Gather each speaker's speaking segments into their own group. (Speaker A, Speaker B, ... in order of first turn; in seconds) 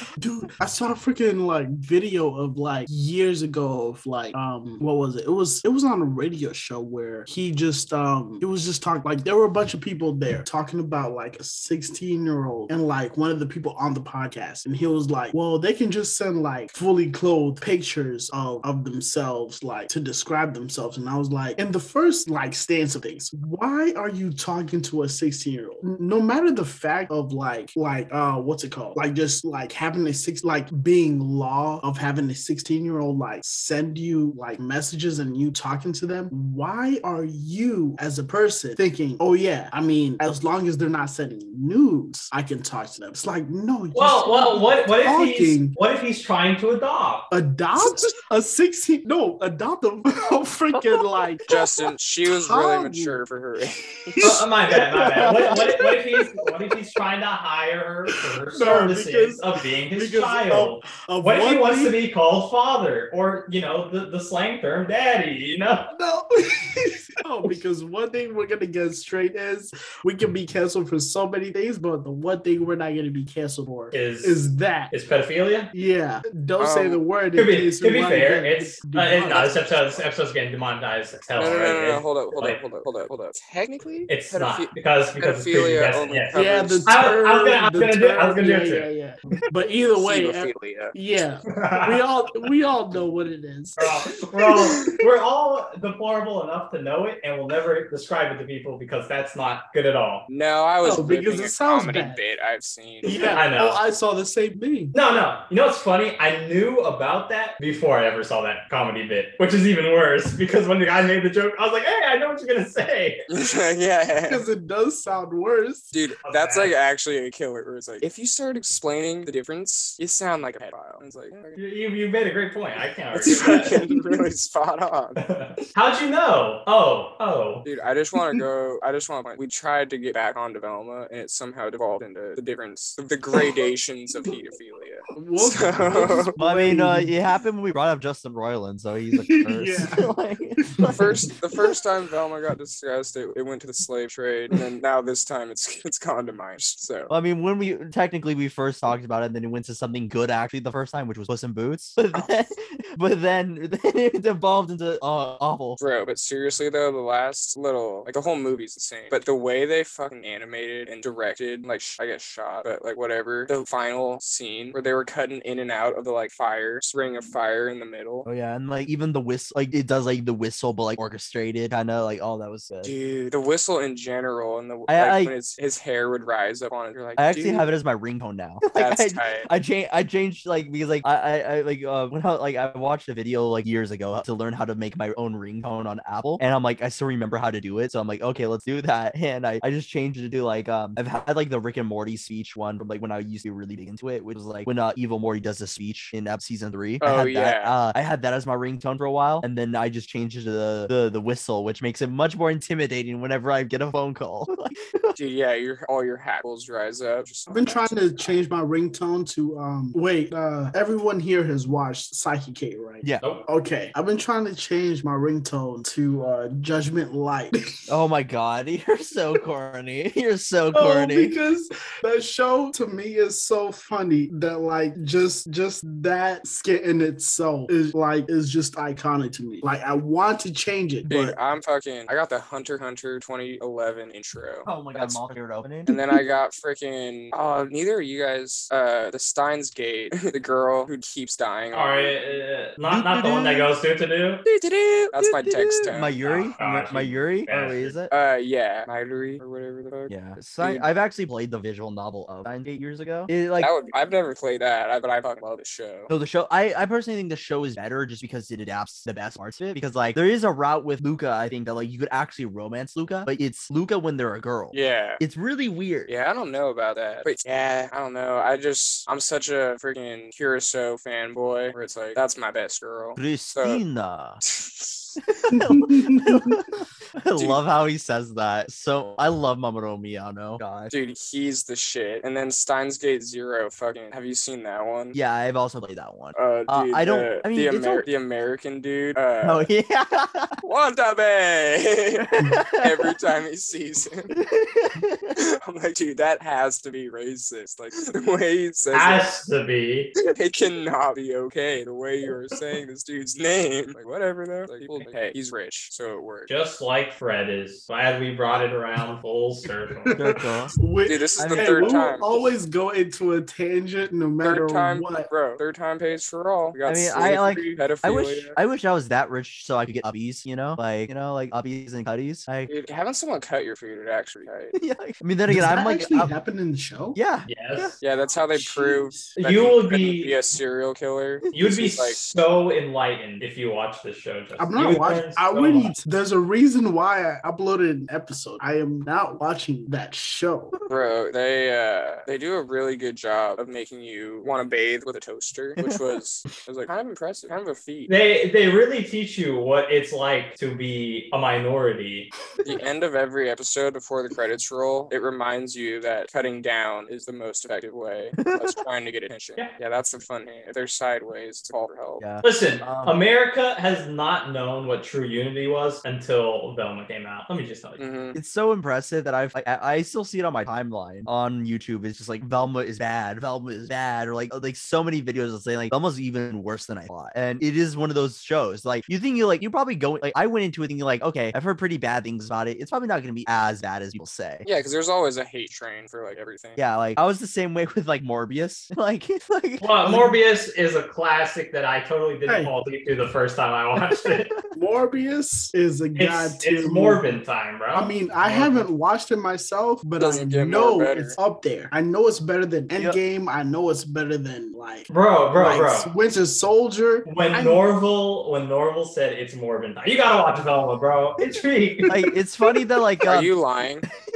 Speaker A: 0.2-45.8, 47.3-53.2, 54.1-56.3, 58.5-62.0, 65.9-74.9, 75.7-80.0, 86.3-94.0, 100.8-102.2, 103.0-105.0, 114.3-115.9, 135.2-137.1, 139.1-141.3, 207.5-217.6, 220.7-231.4, 275.5-276.6, 310.1-315.3, 325.5-327.2, 328.5-329.3, 334.6-340.7, 392.5-392.7, 394.7-397.4, 397.9-407.9
Speaker B: 43.9-47.3, 54.2-65.9, 73.9-75.7, 77.4-82.6, 84.1-88.9, 91.5-92.0, 93.8-100.3, 103.3-103.8, 104.9-113.2, 116.2-116.8, 121.6-123.9, 125.2-127.7, 241.7-244.4, 246.6-248.0, 298.9-300.1, 306.5-310.2, 327.5-327.9, 329.4-330.4, 331.5-335.9, 348.1-352.3, 362.4-368.0, 389.8-394.5, 396.1-398.7, 405.1-406.1, 407.2-412.3
Speaker C: 51.5-54.3, 76.6-77.0, 81.4-87.2, 90.0-91.0, 100.3-103.4, 113.3-114.4, 115.9-121.6, 123.1-125.2, 127.7-136.3, 140.9-147.1, 155.8-168.3, 172.8-177.7, 178.7-179.5, 197.0-197.8, 205.2-208.4, 231.1-235.2, 235.9-242.4, 244.4-246.6, 248.1-250.9, 253.6-256.1, 264.7-265.2, 266.1-273.8, 274.5-275.2, 277.4-277.6, 280.9-285.2, 286.4-289.7, 290.6-294.3, 295.4-299.3, 300.3-306.5, 311.1-312.5, 314.4-318.6, 322.7-324.8, 328.0-332.2, 340.9-348.1, 352.6-362.2, 368.0-368.4, 384.6-386.8, 400.2-401.4, 413.2-414.1
Speaker D: 55.1-55.9, 136.4-141.3, 147.1-155.8, 168.2-172.9, 174.9-175.3, 177.2-205.2, 217.9-221.3, 234.7-236.0, 242.9-243.7, 245.1-248.1, 250.1-253.7, 256.1-266.1, 273.2-274.4, 275.3-280.9, 285.1-288.0, 289.4-290.6, 292.4-293.1, 294.3-295.3, 310.1-310.8, 311.4-312.2, 316.9-322.7, 324.8-326.3, 327.1-328.0, 358.4-358.8, 362.2-363.2, 368.3-384.7, 386.8-390.4, 394.1-394.6, 412.1-413.6